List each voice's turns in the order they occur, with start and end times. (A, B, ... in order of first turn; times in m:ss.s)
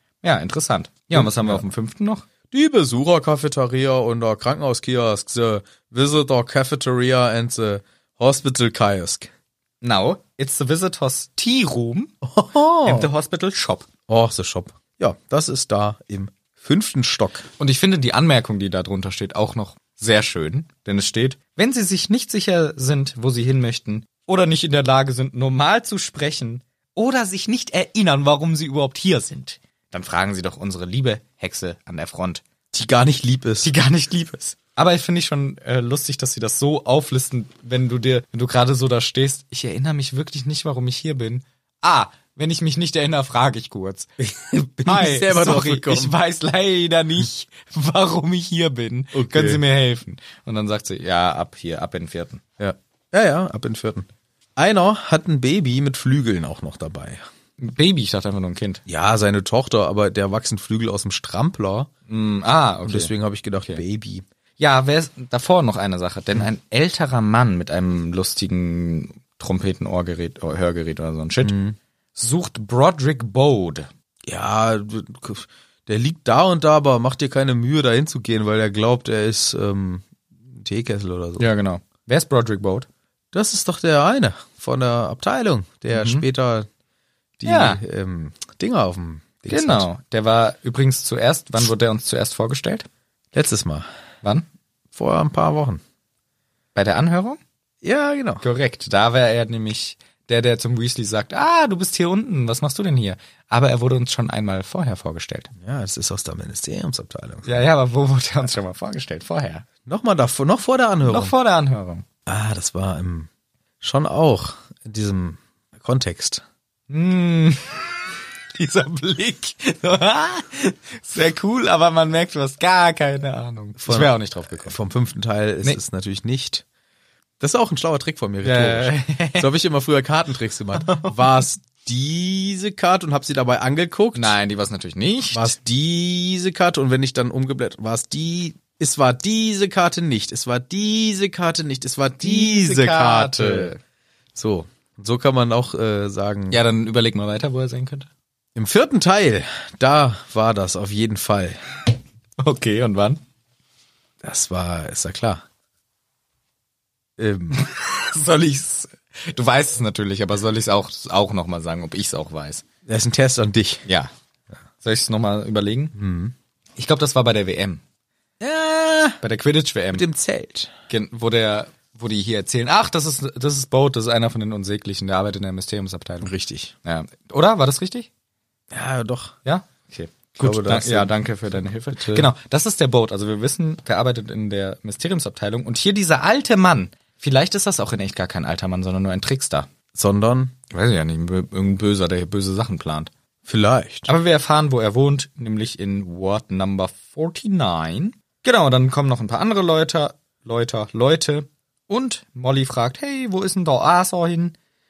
0:00.2-0:02.2 A
0:01.1-0:01.6 B
0:02.5-0:09.3 B
0:09.8-0:12.1 A
0:12.2-0:13.1 B
0:12.8-0:13.9 A
0:14.1-0:17.5 B
0:17.6-0:32.4 A
0:32.7-0:33.7 B
0:33.6-0:44.1 A
0:44.2-0:46.1 B
0:44.8-0:52.4 A
0:49.1-0:49.6 B
0:52.6-0:57.2 B
0:57.6-0:58.8 A
0:58.8-1:01.9 B
1:02.1-1:03.1 A
1:02.8-1:04.2 B
1:04.6-1:11.5 A
1:11.4-1:11.8 B
1:12.2-1:13.9 A
1:14.3-1:21.5 B
1:21.4-1:22.9 A
1:23.3-1:26.7 B
1:25.9-1:26.2 A
1:27.4-1:29.9 B
1:27.4-1:27.8 A
1:29.5-1:32.8 A
1:33.3-1:33.9 B
1:34.9-1:35.8 B
1:36.7-1:37.4 A
1:37.8-1:38.4 B
1:38.4-1:45.5 A
1:45.6-1:47.6 B
1:47.4-1:49.6 A
1:49.8-1:51.3 B
1:51.0-1:52.0 A
1:52.2-1:53.3 B
1:53.8-1:56.4 B
1:56.9-1:58.0 A
1:58.5-2:04.7 A
2:03.8-2:06.6 B
2:07.4-2:14.3 B
2:08.4-2:09.5 A
2:10.7-2:11.2 A
2:14.1-2:15.5 A
2:15.3-2:23.7 B
2:22.2-2:23.8 A
2:24.3-2:26.6 B
2:26.5-2:28.1 A
2:28.6-2:31.6 B
2:32.4-2:33.2 A
2:34.2-2:35.4 B
2:37.2-2:37.6 B
2:37.5-2:42.6 A
2:42.8-2:43.8 B
2:43.8-2:44.1 A
2:44.8-2:45.9 A
2:45.9-2:46.3 B
2:46.8-2:47.8 A
2:48.4-2:49.2 B
2:49.2-2:50.0 A
2:49.9-2:50.7 B
2:50.9-2:56.3 A
2:56.2-2:56.7 B
2:56.8-2:58.1 A
2:58.7-2:59.4 B
2:59.4-3:09.7 A
3:00.4-3:01.1 B
3:01.9-3:02.3 B
3:09.9-3:10.6 B
3:10.7-3:13.1 A
3:13.4-3:14.1 B
3:14.1-3:24.5 A